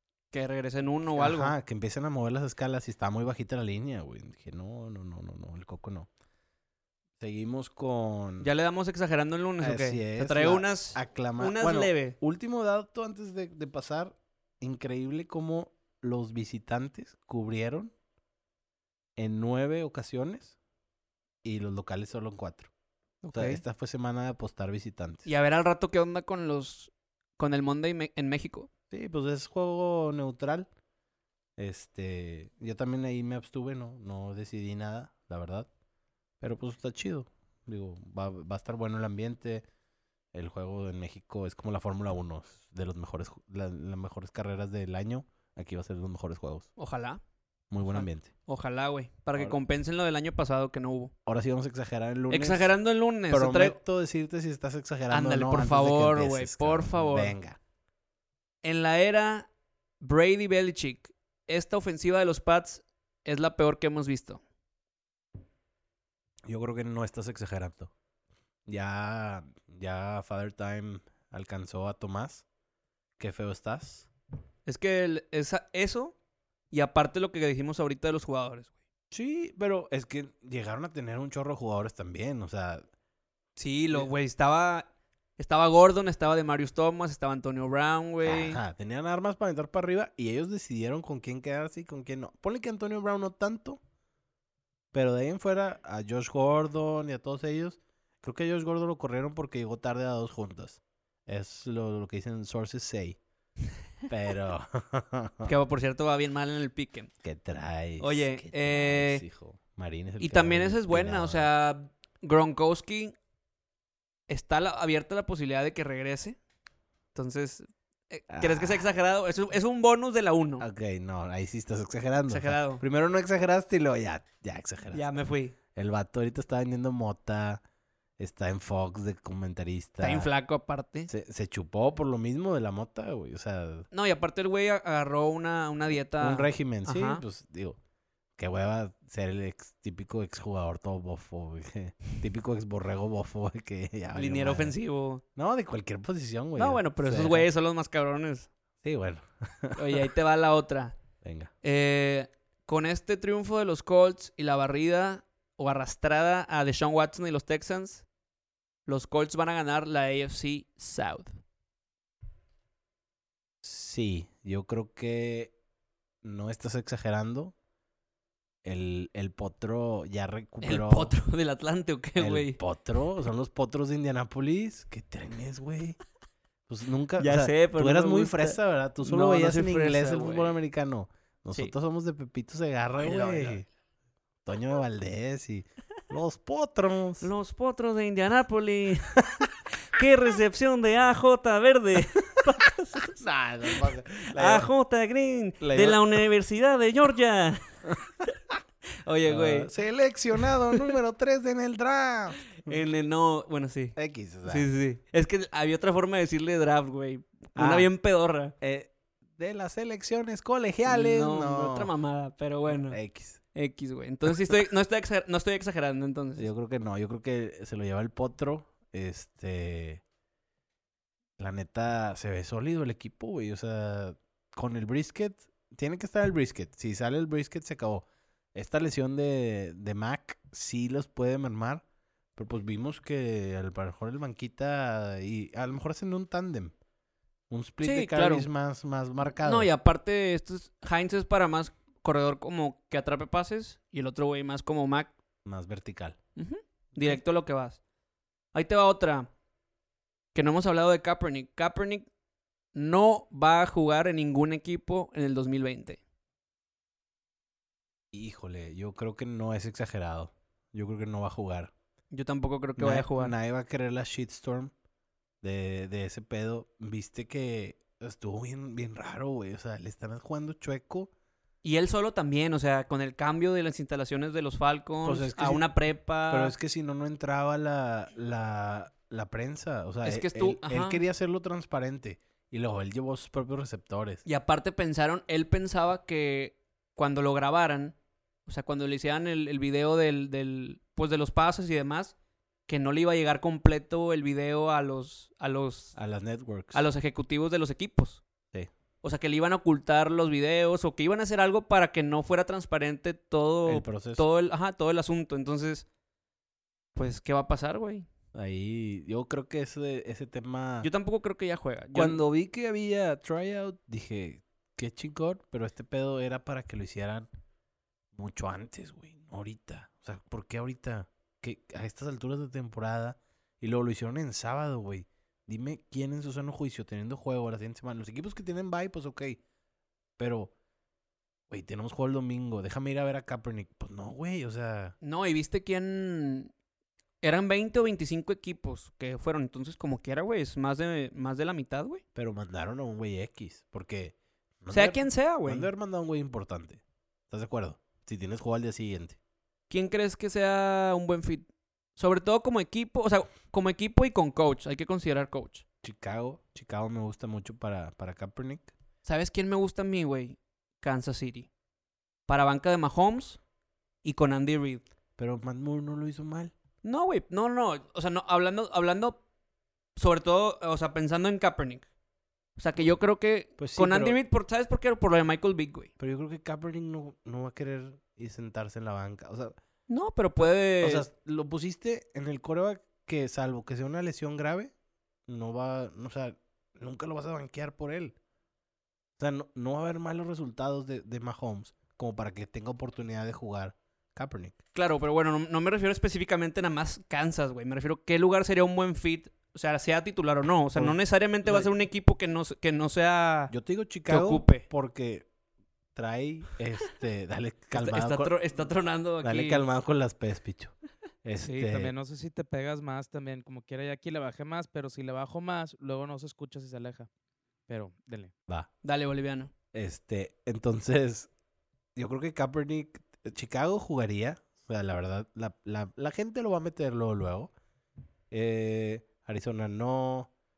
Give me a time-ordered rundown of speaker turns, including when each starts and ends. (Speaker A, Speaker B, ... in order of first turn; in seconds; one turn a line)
Speaker A: 0.3-1.5
Speaker B: 1.2-6.1
Speaker B: 7.2-8.5
Speaker A: 8.4-12.2
Speaker B: 9.6-17.9
Speaker B: 19.2-20.6
Speaker B: 21.4-22.7
Speaker A: 23.2-23.6
Speaker B: 23.3-25.3
Speaker A: 25.3-28.7
Speaker B: 28.9-30.7
Speaker B: 31.6-35.7
Speaker B: 36.4-39.6
Speaker B: 40.3-46.7
Speaker A: 46.8-47.2
Speaker B: 47.7-48.3
Speaker A: 47.9-51.1
Speaker B: 51.3-52.8
Speaker A: 52.3-53.8
Speaker B: 53.3-57.6
Speaker A: 55.1-57.4
Speaker A: 58.6-59.5
Speaker A: 60.0-64.4
Speaker B: 66.5-67.9
Speaker B: 68.7-72.5
Speaker B: 73.2-74.1
Speaker A: 74.7-76.2
Speaker A: 76.7-78.7
Speaker B: 79.1-82.9
Speaker A: 83.6-84.9
Speaker A: 85.4-88.6
Speaker B: 88.2-93.8
Speaker B: 94.9-103.2
Speaker B: 104.1-105.5
Speaker A: 105.5-107.1
Speaker B: 107.2-111.5
Speaker A: 108.0-109.2
Speaker A: 110.2-113.2
Speaker A: 114.3-116.4
Speaker A: 117.2-120.7
Speaker B: 118.3-118.9
Speaker B: 120.6-125.1
Speaker A: 122.3-122.8
Speaker A: 124.9-125.5
Speaker B: 125.8-127.6
Speaker B: 128.2-130.3
Speaker A: 130.0-131.1
Speaker B: 131.1-133.9
Speaker A: 133.9-137.2
Speaker B: 136.2-137.8
Speaker B: 138.4-144.8
Speaker A: 144.1-145.2
Speaker B: 145.3-147.5
Speaker A: 146.6-148.5
Speaker B: 148.8-150.0
Speaker A: 149.8-151.0
Speaker B: 151.2-151.5
Speaker A: 151.6-158.1
Speaker A: 158.9-161.4
Speaker B: 163.6-165.5
Speaker B: 166.2-167.5
Speaker B: 168.6-171.2
Speaker A: 170.6-172.6
Speaker B: 172.2-176.0
Speaker B: 176.7-183.7
Speaker A: 177.2-180.6
Speaker A: 183.0-183.6
Speaker B: 184.4-187.3
Speaker A: 187.2-189.2
Speaker A: 189.9-197.7
Speaker B: 193.2-194.7
Speaker B: 195.6-196.2
Speaker A: 199.0-199.7
Speaker B: 199.3-202.5
Speaker A: 202.6-208.6
Speaker B: 203.9-204.7
Speaker B: 207.6-207.9
Speaker B: 208.6-211.9
Speaker A: 210.9-216.5
Speaker B: 212.9-213.4
Speaker B: 216.4-220.0
Speaker B: 221.4-231.8
Speaker B: 232.4-236.7
Speaker B: 237.5-239.7
Speaker A: 237.8-238.5
Speaker A: 239.4-245.1
Speaker B: 245.4-246.2
Speaker A: 246.4-247.8
Speaker A: 248.5-249.3
Speaker A: 250.3-252.1
Speaker A: 252.7-256.0
Speaker B: 258.1-261.7
Speaker A: 262.1-263.3
Speaker B: 262.8-264.7
Speaker B: 265.4-271.1
Speaker A: 271.6-276.5
Speaker B: 275.0-275.7
Speaker B: 276.3-284.2
Speaker A: 280.0-281.0
Speaker A: 284.2-287.9
Speaker A: 288.5-292.1
Speaker A: 292.7-295.9
Speaker B: 295.9-296.8
Speaker A: 296.7-298.2
Speaker A: 299.0-305.9
Speaker B: 303.6-304.2
Speaker A: 306.9-308.1
Speaker B: 308.3-310.9
Speaker A: 310.8-312.2
Speaker B: 311.9-317.3
Speaker B: 318.1-329.4
Speaker B: 330.2-330.5
Speaker B: 331.5-334.9
Speaker A: 335.0-336.5
Speaker A: 337.2-342.0
Speaker B: 342.1-349.2
Speaker A: 344.7-345.7
Speaker A: 349.7-355.6
Speaker B: 355.8-358.7
Speaker A: 359.1-361.5
Speaker A: 362.3-363.4
Speaker A: 364.0-364.8
Speaker B: 365.2-366.5
Speaker A: 366.8-369.2
Speaker A: 370.0-371.9
Speaker A: 372.6-375.9
Speaker B: 373.6-374.2
Speaker B: 376.0-379.6
Speaker A: 379.9-381.1
Speaker B: 380.8-384.7
Speaker B: 385.3-388.1
Speaker B: 389.2-394.6
Speaker A: 394.7-403.5
Speaker B: 400.8-401.7
Speaker B: 403.5-405.3
Speaker A: 404.1-404.6
Speaker B: 405.9-408.4
Speaker A: 407.7-409.6
Speaker B: 409.2-411.9
Speaker C: 411.6-417.1
Speaker C: 417.7-418.3
Speaker A: 418.8-419.5
Speaker B: 419.7-421.3
Speaker B: 422.0-427.5
Speaker B: 428.3-430.3